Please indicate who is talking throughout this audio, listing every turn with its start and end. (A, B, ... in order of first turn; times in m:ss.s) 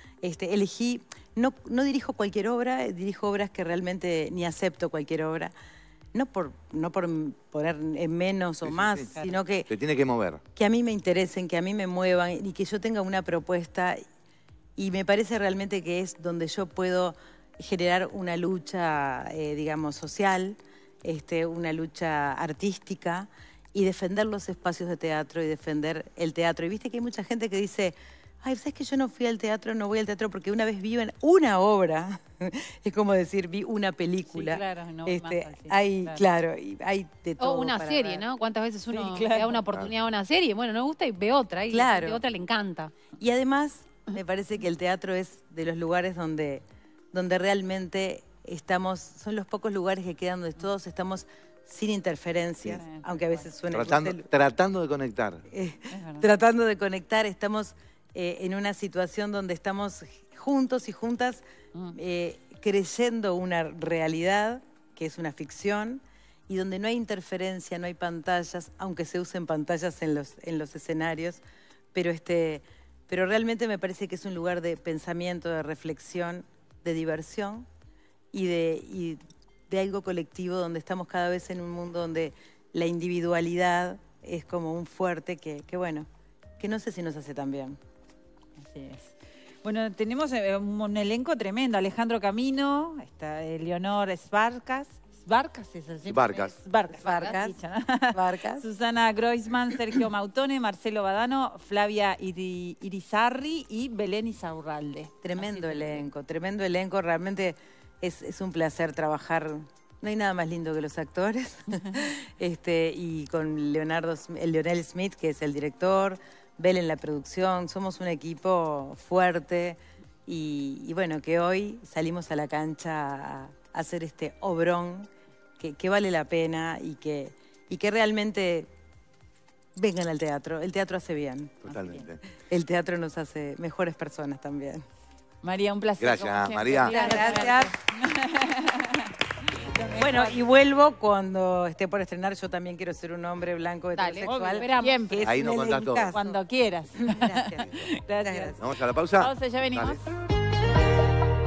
0:00.2-0:05.5 A
0:06.1-0:09.7 A
0:08.6-0:09.1 B
0:09.7-0:10.4 B
0:10.6-0:14.0 A
0:14.8-0:38.2 A
0:34.2-0:36.2 C
0:37.4-0:42.9 D
0:38.9-0:39.6 C
0:41.7-0:42.2 A
0:43.2-0:54.3 A
0:52.7-0:53.5 C
0:53.7-0:55.4 B
0:55.5-1:11.4 A
0:55.9-0:56.3 C
1:11.9-1:17.7 A
1:18.3-1:26.1 A
1:26.6-1:27.8 A
1:28.6-1:46.1 C
1:36.0-1:36.6 B
1:36.9-1:37.6 A
1:37.0-1:37.4 D
1:38.1-1:38.7 A
1:45.2-2:08.7 A
2:09.8-2:11.6 A
2:11.6-2:12.2 B
2:11.6-2:12.0 C
2:12.5-2:14.8 A
2:15.4-2:20.4 C
2:16.0-2:17.4 B
2:16.9-2:17.7 A
2:20.0-2:26.4 A
2:24.0-2:25.1 D
2:24.3-2:25.2 C
2:25.2-2:26.1 B
2:26.1-2:28.6 C
2:26.9-2:28.6 A
2:28.6-2:30.0 B
2:29.2-2:30.0 C